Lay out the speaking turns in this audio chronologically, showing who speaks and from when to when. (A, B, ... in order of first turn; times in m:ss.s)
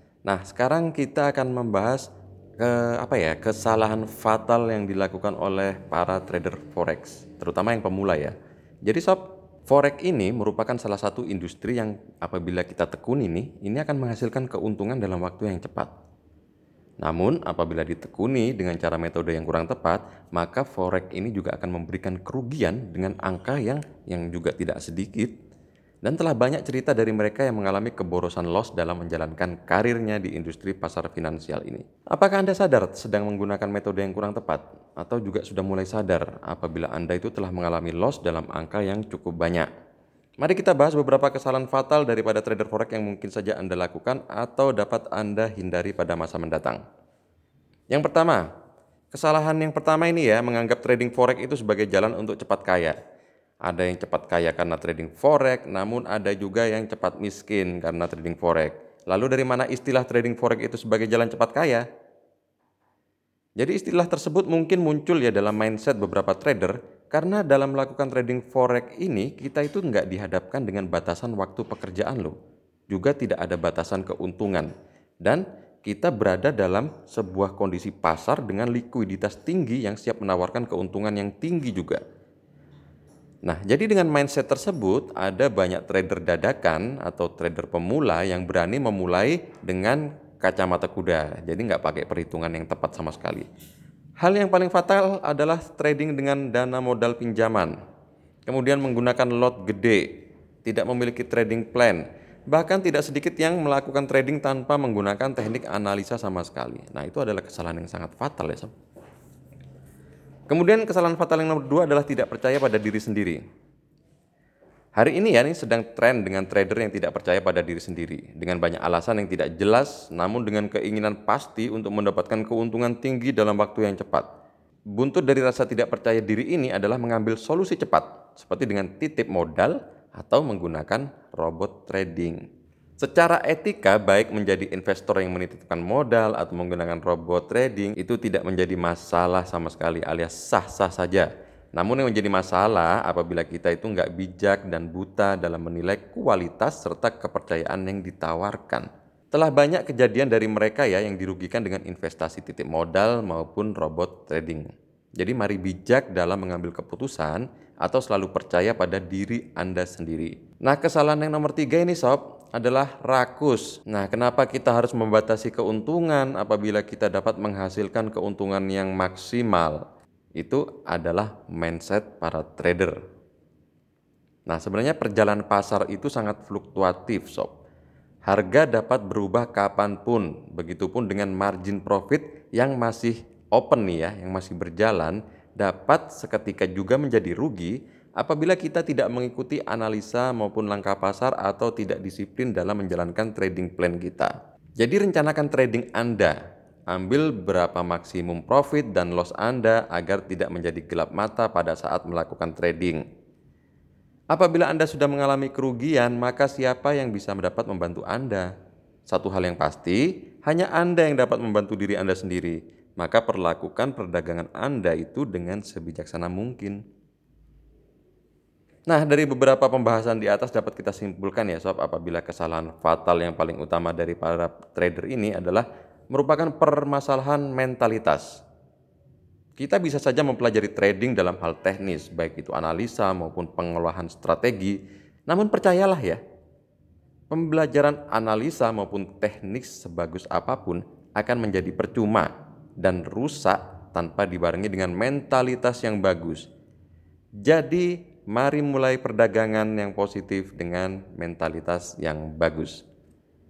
0:00.3-0:08.3 A
0:08.8-0:15.9 A
0:17.0-0:25.3 A
0:26.0-0:39.7 A
0:40.4-0:46.8 A
0:47.9-0:48.5 A
0:49.1-0:53.0 A
0:53.6-1:01.8 A
1:03.6-1:12.4 A
1:12.9-1:14.7 A
1:15.2-1:22.0 A
1:23.4-1:33.5 A
1:34.2-1:37.8 A
1:38.5-1:40.1 A
1:40.6-1:48.7 A
1:50.5-1:53.4 A
1:55.0-2:04.3 A
2:05.0-2:12.4 A
2:13.0-2:34.7 A
2:35.2-2:49.8 A
2:50.4-2:53.0 A
2:54.5-2:57.5 A
2:58.3-3:16.4 A
3:16.9-3:23.0 A
3:24.3-3:28.5 A
3:29.1-3:36.8 A
3:38.9-3:48.4 A
3:49.6-3:56.2 A
3:57.3-4:06.5 A
4:07.4-4:12.8 A